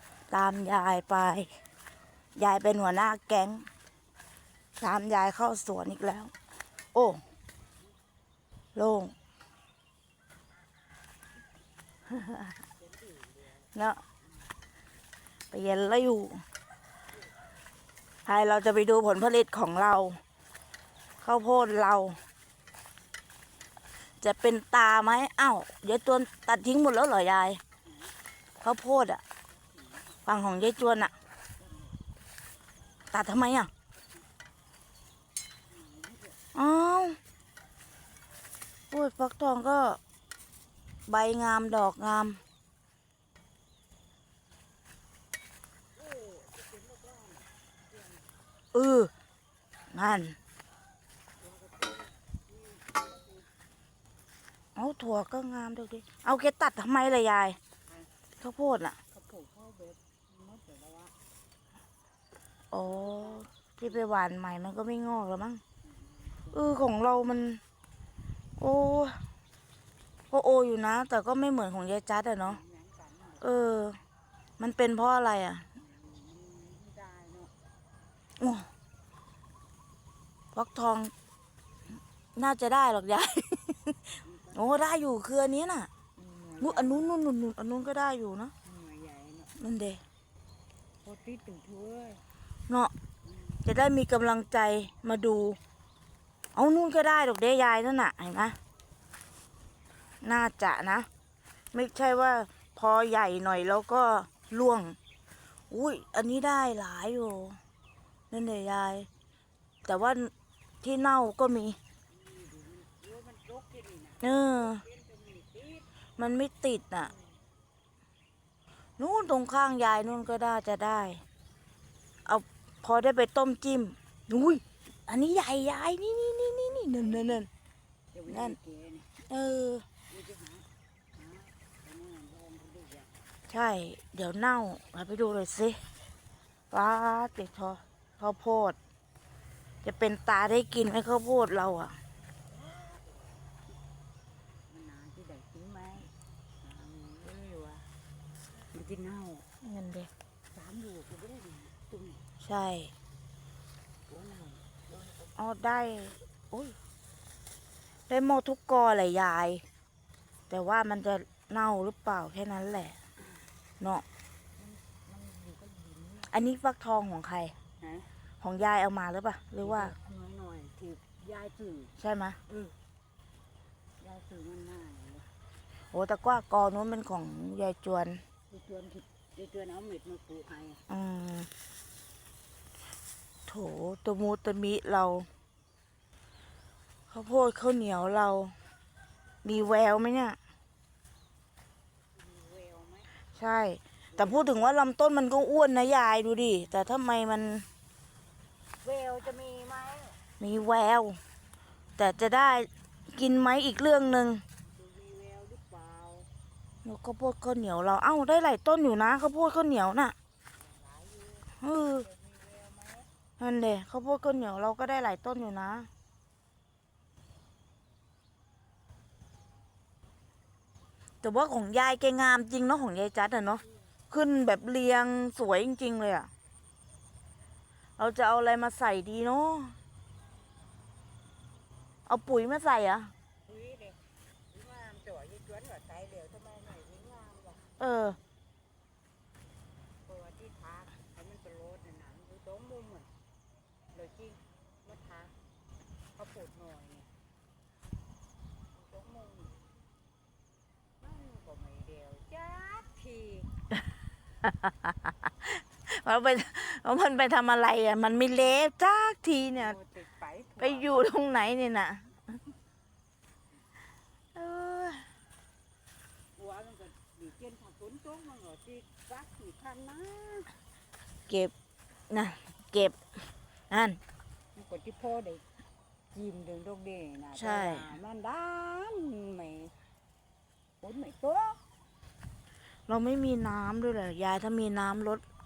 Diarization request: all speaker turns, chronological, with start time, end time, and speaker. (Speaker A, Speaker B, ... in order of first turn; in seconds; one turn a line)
Speaker A: 0.3-1.5
Speaker A: 2.4-3.7
Speaker A: 4.8-6.3
Speaker A: 6.9-7.2
Speaker A: 8.8-9.1
Speaker A: 12.2-12.5
Speaker B: 12.8-13.6
Speaker A: 13.7-14.0
Speaker A: 15.5-16.4
Speaker A: 18.3-20.2
Speaker A: 21.2-22.2
Speaker A: 24.2-27.6
Speaker B: 27.8-28.1
Speaker A: 28.6-29.2
Speaker B: 29.5-30.2
Speaker A: 30.3-31.1
Speaker B: 31.6-32.0
Speaker A: 33.1-33.7
Speaker B: 34.0-34.2
Speaker B: 35.7-36.4
Speaker A: 36.5-37.2
Speaker A: 38.9-40.0
Speaker A: 41.1-42.4
Speaker B: 46.0-48.3
Speaker A: 48.7-49.1
Speaker A: 49.9-50.4
Speaker B: 51.4-53.5
Speaker A: 54.8-57.6
Speaker A: 58.4-59.0
Speaker B: 59.1-61.1
Speaker A: 62.7-65.6
Speaker B: 62.8-63.5
Speaker B: 65.8-66.6
Speaker A: 66.5-67.6
Speaker A: 68.6-69.2
Speaker A: 70.3-72.6
Speaker B: 72.4-73.5
Speaker A: 73.4-74.0
Speaker A: 74.6-75.7
Speaker B: 75.8-77.5
Speaker A: 78.4-78.7
Speaker A: 80.5-81.1
Speaker A: 82.3-85.9
Speaker B: 84.2-84.7
Speaker B: 86.2-87.1
Speaker A: 86.6-88.5
Speaker B: 88.6-89.5
Speaker A: 89.6-90.0
Speaker B: 91.0-92.2
Speaker B: 93.2-93.6
Speaker A: 93.6-95.6
Speaker A: 96.5-98.6
Speaker A: 100.2-101.1
Speaker A: 101.7-105.0
Speaker A: 105.7-107.6
Speaker A: 108.3-109.1
Speaker A: 109.9-111.8
Speaker B: 112.1-115.9
Speaker A: 114.2-114.8
Speaker A: 116.2-117.1
Speaker A: 119.0-121.2
Speaker A: 122.3-127.5
Speaker B: 128.1-129.1
Speaker A: 128.3-128.6
Speaker A: 129.3-129.9
Speaker B: 130.1-133.1
Speaker A: 133.5-135.8
Speaker A: 136.7-138.8
Speaker A: 139.8-142.0
Speaker B: 144.7-147.9
Speaker B: 148.7-149.5
Speaker A: 149.6-150.1
Speaker B: 150.5-152.2
Speaker A: 152.4-152.9
Speaker B: 154.1-155.2
Speaker A: 155.4-156.8
Speaker A: 158.1-159.7
Speaker A: 160.5-163.0
Speaker A: 163.8-164.1
Speaker B: 164.6-166.3
Speaker A: 166.3-167.6
Speaker B: 167.8-168.1
Speaker A: 168.4-169.9
Speaker B: 169.6-171.9
Speaker A: 172.0-172.4
Speaker B: 172.5-172.8
Speaker B: 174.0-175.3
Speaker A: 175.9-178.2
Speaker B: 178.5-180.8
Speaker A: 180.9-181.5
Speaker A: 183.5-185.3
Speaker A: 187.1-188.6
Speaker A: 189.4-190.4
Speaker B: 192.1-193.1
Speaker A: 193.3-197.7
Speaker B: 194.1-194.6
Speaker B: 198.8-200.2
Speaker A: 200.4-201.2
Speaker A: 202.0-204.4
Speaker B: 204.6-206.3
Speaker A: 206.8-210.2
Speaker B: 210.5-213.1
Speaker A: 211.6-212.1
Speaker A: 213.4-215.9
Speaker A: 221.2-226.3
Speaker A: 228.0-229.8
Speaker A: 232.1-233.1
Speaker B: 233.5-237.7
Speaker A: 237.8-238.2
Speaker B: 240.1-243.1
Speaker B: 243.9-245.3
Speaker B: 246.2-247.1
Speaker B: 248.8-249.6
Speaker B: 251.0-253.5
Speaker A: 254.4-259.8
Speaker B: 259.6-261.1
Speaker A: 260.6-262.3
Speaker A: 264.4-265.1
Speaker B: 266.4-270.5
Speaker A: 271.3-271.5
Speaker A: 272.1-274.0
Speaker B: 274.5-275.5
Speaker B: 276.1-279.7
Speaker A: 277.4-277.9
Speaker B: 280.8-281.8
Speaker A: 282.9-285.2